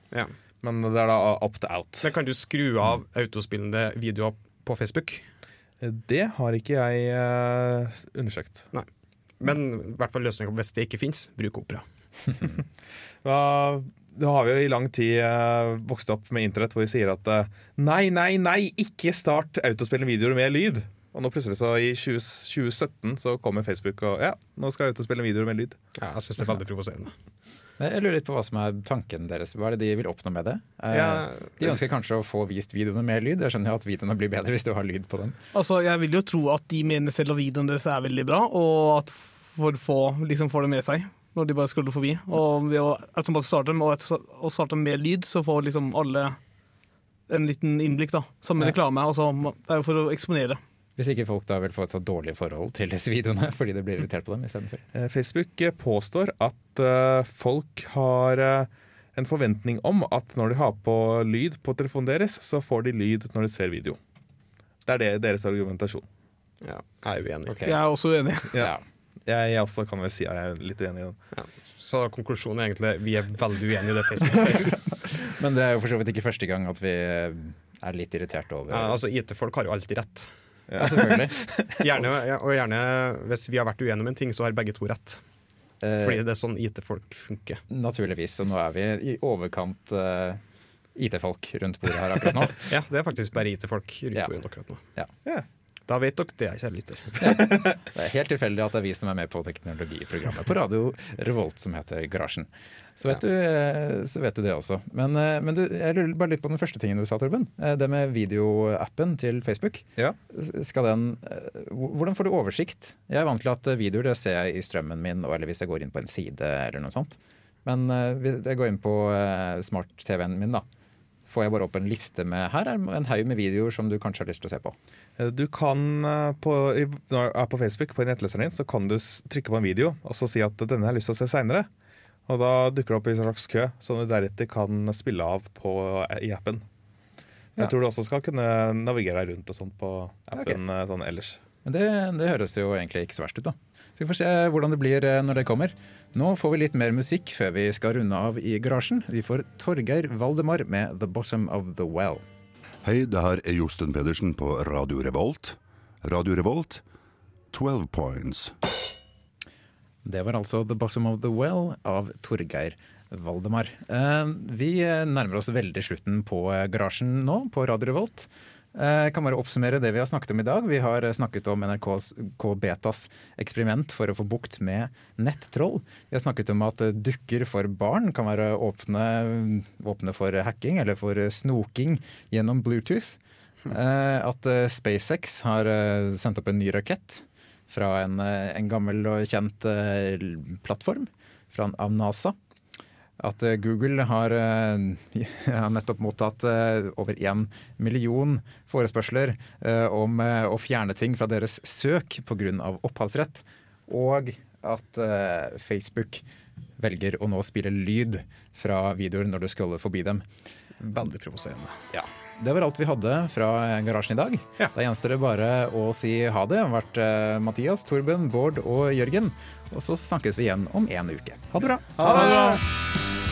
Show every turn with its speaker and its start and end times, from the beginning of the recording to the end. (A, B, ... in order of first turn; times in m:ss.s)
0:00.6-0:02.1 A
0:02.0-0:05.3 B
0:05.8-0:08.7 A
0:09.4-0:11.8 B
0:13.2-0:25.8 A
0:26.0-0:27.1 B
0:27.8-0:35.4 C
0:30.9-0:31.7 B
0:35.5-0:46.4 D
0:47.3-0:50.6 D
0:51.0-0:54.8 C
0:54.9-1:04.0 A
1:04.8-1:06.0 A
1:06.6-1:07.6 B
1:07.5-1:07.8 C
1:07.6-1:08.6 D
1:08.6-1:08.8 C
1:09.2-1:11.2 A
1:11.3-1:14.8 B
1:15.1-1:19.0 C
1:18.7-1:20.4 B
1:20.7-1:21.8 A
1:20.8-1:21.4 C
1:21.8-1:25.2 B
1:25.8-1:26.2 C
1:26.0-1:27.6 B
1:27.7-1:30.4 C
1:30.9-1:32.7 C
1:32.7-1:34.8 B
1:35.9-1:37.2 B
1:37.2-2:00.6 C
2:01.3-2:04.8 C
2:05.2-2:11.7 A
2:12.3-2:16.6 A
2:17.6-2:21.4 A
2:21.6-2:32.2 C
2:32.8-2:36.8 E
2:37.5-2:38.6 E
2:40.0-3:12.4 C
3:13.2-3:26.2 C
3:26.8-3:30.3 C
3:30.8-3:31.8 B
3:31.9-3:42.6 C
3:42.0-3:42.6 A
3:42.0-3:42.6 B